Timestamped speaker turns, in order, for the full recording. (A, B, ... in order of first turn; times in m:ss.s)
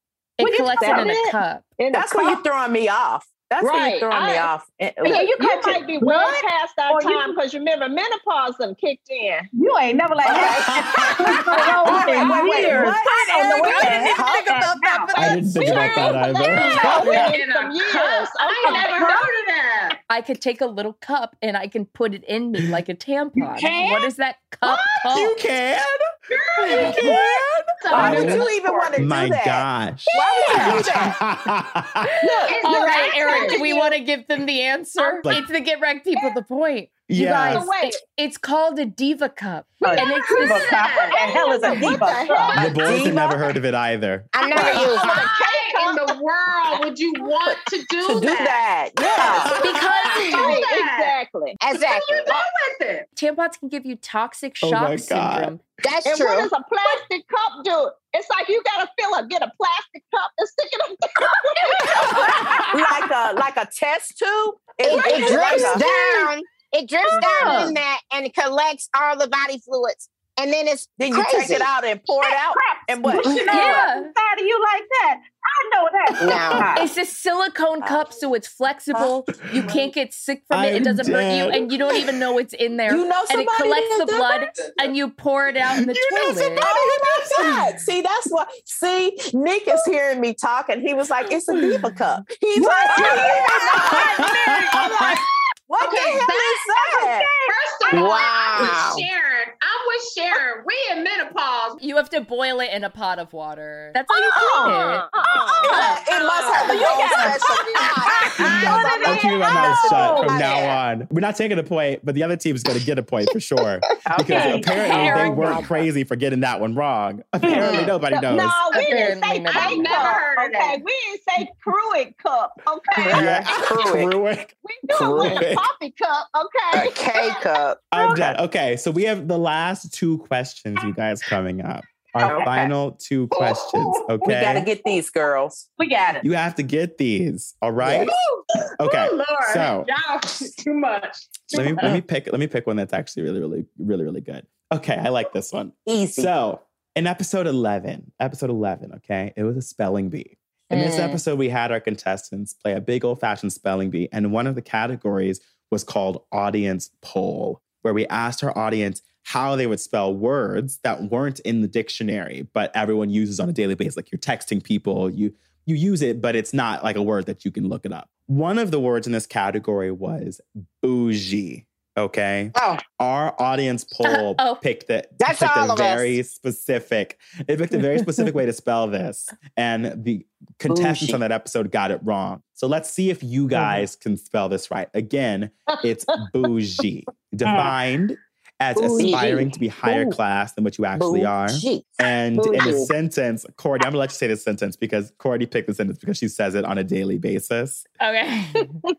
0:00.4-0:01.6 A
0:00.4-0:01.2 B
0:00.6-0:02.4 C
0:01.9-0:05.2 D
0:03.6-0:04.5 C
0:05.0-0:07.4 B
0:05.0-0:09.5 C
0:09.5-0:15.4 B
0:10.3-0:10.6 D
0:10.3-0:11.4 E
0:11.6-0:15.6 D
0:13.6-0:14.1 C
0:15.1-0:19.3 C
0:15.2-0:17.4 E
0:16.5-0:20.0 F
0:18.6-0:19.3 B
0:20.1-0:25.4 A
0:23.4-0:24.1 B
0:24.6-0:26.0 E
0:26.3-0:27.2 F
0:26.6-0:27.2 A
0:26.7-0:32.1 E
0:27.8-0:29.0 F
0:27.9-0:31.2 D
0:27.9-0:28.5 B
0:30.1-0:30.6 C
0:30.2-0:30.9 B
0:32.3-0:34.0 C
0:32.4-0:33.7 F
0:32.6-0:40.8 A
0:35.0-0:35.2 C
0:37.1-0:37.7 E
0:37.2-0:38.0 C
0:39.8-0:42.6 B
0:40.4-0:41.8 F
0:41.1-0:42.8 C
0:42.5-0:42.8 F
0:42.6-0:45.0 E
0:42.6-0:43.5 D
0:44.3-0:45.2 G
0:44.5-0:48.6 F
0:44.5-0:46.2 C
0:47.4-0:49.6 D
0:49.2-0:49.5 B
0:49.4-0:49.9 E
0:49.6-0:50.5 A
0:50.0-0:51.6 C
0:50.1-0:51.1 F
0:51.6-0:52.3 G
0:51.8-0:53.1 F
0:53.2-0:55.6 A
0:54.6-0:55.5 E
0:55.8-0:56.5 G
0:56.0-1:02.4 C
1:02.0-1:02.8 B
1:02.7-1:05.8 D
1:04.8-1:11.7 G
1:04.9-1:06.2 B
1:07.1-1:07.8 B
1:11.0-1:13.9 D
1:12.2-1:16.9 B
1:13.5-1:14.1 A
1:16.2-1:16.7 G
1:16.7-1:26.7 A
1:20.5-1:22.2 E
1:22.9-1:24.3 D
1:25.7-1:27.7 E
1:26.6-1:37.3 D
1:32.5-1:35.0 B
1:33.0-1:35.2 E
1:35.8-1:36.6 F
1:36.7-1:38.1 B
1:37.4-1:41.8 F
1:37.9-1:39.0 G
1:41.8-1:45.0 A
1:44.3-1:44.8 D
1:44.3-1:44.7 B
1:44.4-1:46.0 C
1:44.7-1:45.9 G
1:45.6-1:50.8 D
1:45.8-1:47.0 F
1:46.5-1:50.6 B
1:47.4-1:48.9 G
1:48.5-1:58.6 E
1:54.0-1:55.4 D
1:54.2-1:55.5 B
1:54.8-1:55.7 A
1:57.4-1:57.9 B
1:57.6-1:57.9 D
1:58.1-2:03.4 C
1:58.7-2:00.1 A
1:59.5-2:00.8 F
1:59.9-2:00.2 B
2:03.0-2:04.1 D
2:03.1-2:05.7 E
2:04.6-2:07.6 C
2:04.9-2:05.4 D
2:06.7-2:08.3 D
2:07.9-2:14.7 E
2:12.2-2:12.7 D
2:12.2-2:12.6 B
2:14.2-2:15.6 D
2:15.8-2:16.3 B
2:16.2-2:18.1 E
2:17.8-2:18.1 D
2:18.8-2:19.9 E
2:18.8-2:21.9 F
2:21.5-3:17.8 E
2:25.9-2:26.3 D
2:30.7-2:31.2 A
2:52.5-2:52.8 G
2:54.0-2:54.6 A
2:55.2-2:56.1 G
3:00.7-3:01.2 D
3:07.4-3:07.7 B
3:08.8-3:09.4 C
3:08.9-3:10.1 D
3:10.9-3:11.9 D
3:12.4-3:12.9 C
3:12.5-3:12.8 D
3:18.0-3:18.8 A